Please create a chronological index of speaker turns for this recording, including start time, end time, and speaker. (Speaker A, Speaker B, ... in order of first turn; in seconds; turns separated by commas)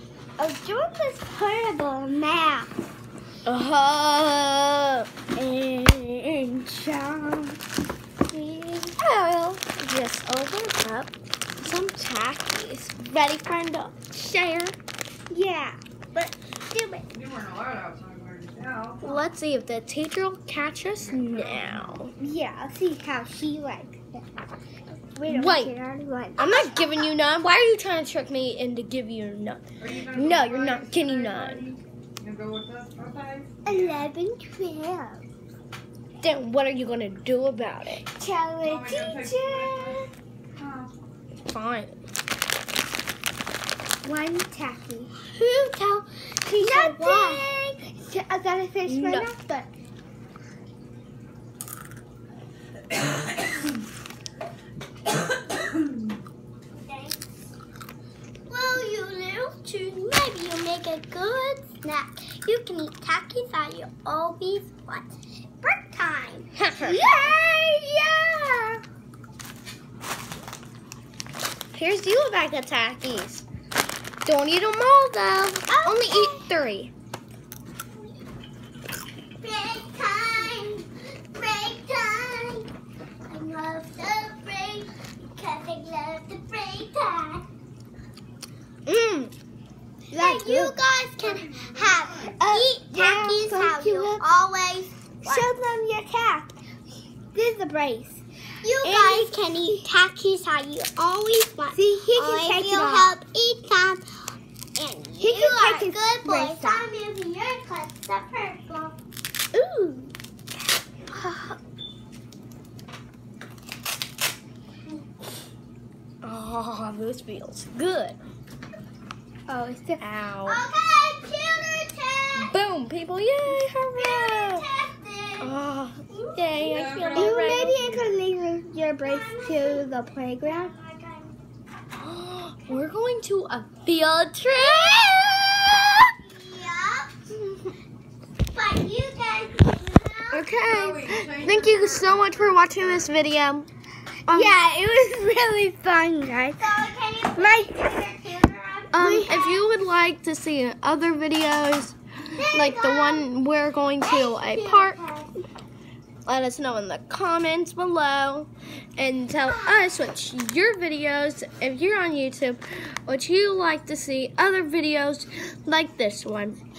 Speaker A: 0.4-2.7, Speaker B: 3.5-7.0, Speaker A: 7.0-7.5, Speaker A: 8.3-8.9, Speaker B: 9.0-14.8, Speaker A: 15.3-15.8, Speaker C: 16.2-17.1, Speaker D: 17.1-19.1, Speaker B: 19.0-22.1, Speaker D: 21.0-22.0, Speaker A: 22.2-24.2, Speaker A: 25.1-26.6, Speaker B: 25.3-25.7, Speaker B: 26.4-31.7, Speaker D: 29.8-34.1, Speaker A: 33.7-35.2, Speaker B: 36.2-38.1, Speaker A: 38.2-40.1, Speaker D: 38.6-40.9, Speaker B: 41.5-42.0, Speaker A: 44.0-45.1, Speaker C: 45.3-47.5, Speaker A: 46.5-49.7, Speaker B: 48.9-49.3, Speaker C: 56.8-57.2, Speaker C: 58.5-65.1, Speaker C: 65.6-66.5, Speaker B: 66.6-67.1, Speaker A: 66.8-68.8, Speaker C: 67.1-67.3, Speaker B: 71.7-73.5, Speaker B: 74.2-76.9, Speaker C: 75.7-76.5, Speaker C: 79.4-82.7, Speaker C: 83.3-87.5, Speaker B: 88.9-89.3, Speaker C: 90.1-95.5, Speaker A: 90.1-90.8, Speaker D: 91.2-92.4, Speaker A: 92.2-94.2, Speaker A: 95.2-96.5, Speaker A: 97.3-98.2, Speaker C: 98.6-104.0, Speaker A: 98.8-99.4, Speaker A: 101.7-103.1, Speaker C: 104.8-109.0, Speaker A: 105.2-106.8, Speaker B: 116.2-118.2, Speaker A: 119.5-120.0, Speaker B: 120.0-120.6, Speaker C: 120.5-122.5, Speaker B: 122.4-124.7, Speaker C: 124.0-125.5, Speaker B: 125.4-128.1, Speaker C: 126.1-127.5, Speaker D: 126.7-127.9, Speaker A: 127.2-130.7, Speaker C: 129.0-129.9, Speaker C: 130.4-131.3, Speaker B: 132.0-136.1, Speaker C: 134.6-135.4, Speaker C: 136.1-137.3, Speaker C: 138.5-140.5, Speaker B: 140.3-143.7, Speaker D: 140.6-142.5, Speaker B: 144.3-144.6, Speaker A: 144.3-146.7, Speaker C: 146.6-149.6, Speaker A: 147.3-147.9, Speaker B: 148.9-152.0, Speaker A: 149.0-149.3, Speaker C: 152.3-153.3, Speaker B: 152.5-155.0, Speaker C: 154.0-155.3, Speaker B: 156.3-166.6, Speaker C: 159.5-159.9